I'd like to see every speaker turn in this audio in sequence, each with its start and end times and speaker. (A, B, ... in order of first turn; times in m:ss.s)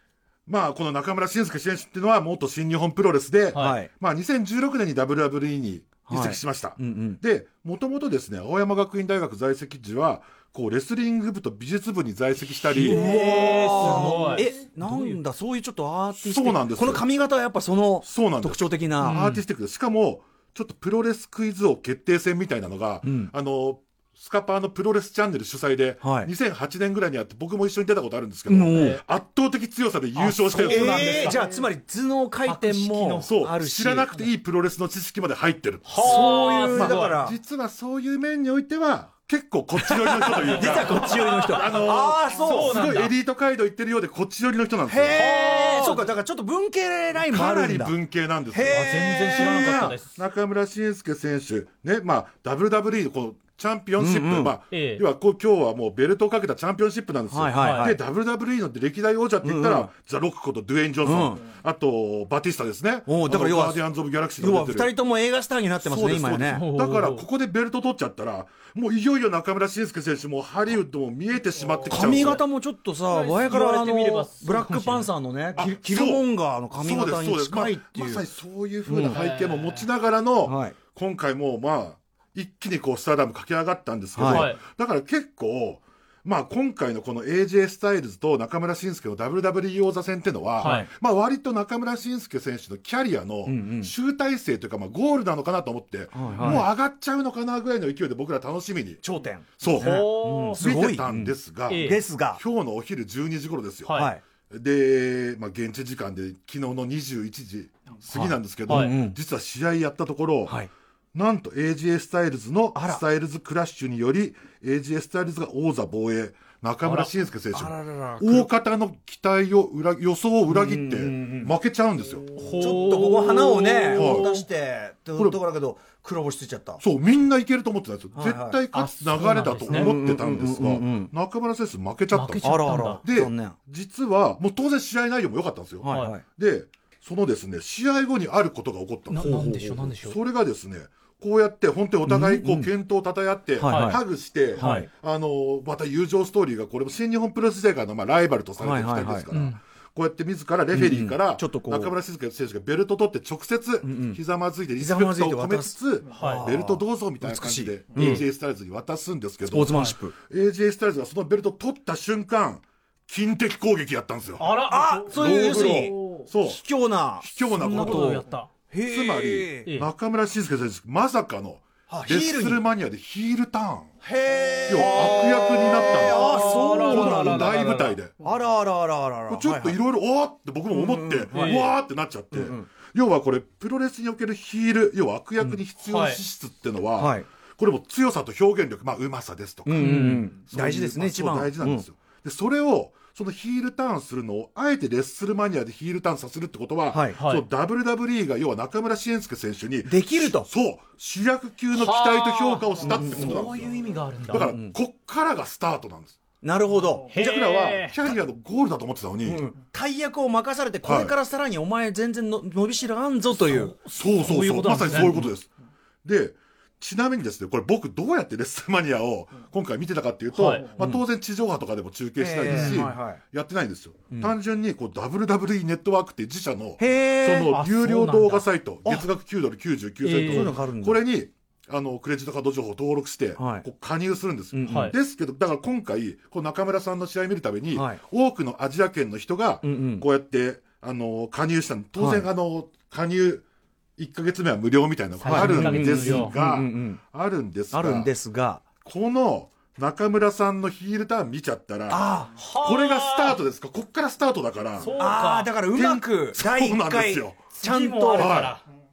0:00.5-0:13.1 A
0:03.6-0:03.9 B
0:06.1-0:07.2 B
0:12.6-0:15.2 C
0:12.7-0:19.3 B
0:16.2-0:17.1 A
0:18.0-0:31.3 A
0:19.0-0:19.4 C
0:23.0-0:23.3 B
0:26.0-0:26.3 B
0:28.5-0:29.0 B
0:28.7-0:29.0 C
0:30.2-0:31.6 C
0:30.5-0:34.1 B
0:32.4-0:33.4 C
0:33.2-0:45.2 A
0:35.9-0:37.2 C
0:36.0-0:37.4 B
0:39.8-0:43.1 C
0:40.5-0:42.8 B
0:44.9-0:48.0 B
0:45.1-0:46.1 C
0:47.2-1:05.0 A
0:48.5-0:49.8 B
0:48.7-0:50.2 C
0:54.0-0:54.6 B
0:54.7-0:55.0 C
0:57.3-0:58.0 B
0:57.6-0:58.0 C
0:59.4-0:59.9 B
1:01.0-1:01.4 B
1:03.1-1:03.9 B
1:04.4-1:06.7 B
1:05.8-1:12.4 A
1:06.5-1:07.3 C
1:11.9-1:18.3 B
1:12.0-1:12.4 C
1:13.1-1:15.6 C
1:15.6-1:39.0 A
1:18.9-1:19.2 B
1:19.0-1:19.9 C
1:20.4-1:20.8 B
1:24.2-1:24.5 B
1:24.2-1:24.6 C
1:30.6-1:30.9 C
1:30.6-1:30.9 B
1:33.5-1:33.9 B
1:36.1-1:36.7 B
1:36.4-1:36.7 C
1:39.0-1:42.4 B
1:39.6-1:50.6 A
1:39.8-1:40.7 C
1:41.7-1:42.0 C
1:43.9-1:44.1 C
1:43.9-1:44.2 B
1:48.1-1:49.2 B
1:51.1-2:02.4 A
1:52.8-1:53.0 B
1:56.8-1:57.1 C
1:57.5-1:58.5 B
2:00.5-2:01.5 B
2:02.4-2:04.5 C
2:02.5-2:06.8 B
2:04.0-2:04.3 A
2:06.8-2:44.5 A
2:08.1-2:08.6 B
2:08.7-2:09.9 C
2:09.7-2:11.1 B
2:12.1-2:13.0 C
2:12.4-2:13.6 B
2:15.8-2:16.2 B
2:15.9-2:16.2 C
2:19.1-2:20.2 C
2:22.0-2:22.7 B
2:23.6-2:24.0 B
2:23.6-2:24.0 C
2:24.6-2:24.9 B
2:24.6-2:24.9 C
2:28.6-2:29.3 B
2:29.3-2:29.6 C
2:30.7-2:32.0 B
2:33.8-2:34.2 B
2:34.8-2:38.2 B
2:36.1-2:36.5 C
2:38.0-2:38.2 C
2:39.5-2:40.2 B
2:44.4-2:46.3 C
2:44.6-2:49.7 B
2:45.1-2:46.6 A
2:47.2-2:48.2 A
2:47.4-2:48.5 C
2:48.8-2:53.9 A
2:51.9-2:52.6 B
2:54.0-2:59.8 B
2:54.7-2:58.1 A
2:54.8-2:58.0 C
2:59.3-3:23.7 A
3:00.7-3:01.6 B
3:01.3-3:01.7 C
3:02.3-3:02.7 B
3:05.8-3:06.2 C
3:07.0-3:07.3 B
3:09.7-3:11.9 B
3:09.8-3:10.3 C
3:16.9-3:17.2 B
3:17.2-3:17.5 C
3:19.9-3:20.5 B
3:21.7-3:24.5 C
3:22.8-3:23.5 B
3:24.3-3:26.2 A
3:24.3-3:24.8 B
3:26.4-3:27.1 B
3:27.1-3:28.0 C
3:27.1-3:29.4 A
3:29.2-3:33.8 B
3:30.8-3:31.2 A
3:33.3-3:35.3 C
3:33.9-3:35.5 A
3:36.0-4:03.4 A
3:40.3-3:40.7 C
3:40.8-3:41.0 B
3:42.2-3:43.2 B
3:42.4-3:42.9 C
3:46.8-3:47.6 B
3:47.4-3:48.5 C
3:48.8-3:49.1 B
3:50.0-3:50.6 C
3:50.2-3:51.0 B
3:53.4-3:53.7 B
3:54.5-3:55.0 B
3:54.7-3:55.0 C
3:57.7-3:58.0 B
3:59.6-4:00.1 B
4:02.0-4:02.3 B
4:04.0-4:08.1 A
4:05.2-4:06.3 C
4:05.3-4:07.0 B
4:07.7-4:08.6 B
4:08.8-4:14.9 A
4:11.9-4:12.3 B
4:12.4-4:13.4 C
4:14.8-4:15.5 C
4:14.8-4:18.4 B
4:15.7-4:17.5 A
4:17.5-4:18.6 C
4:18.2-4:18.6 A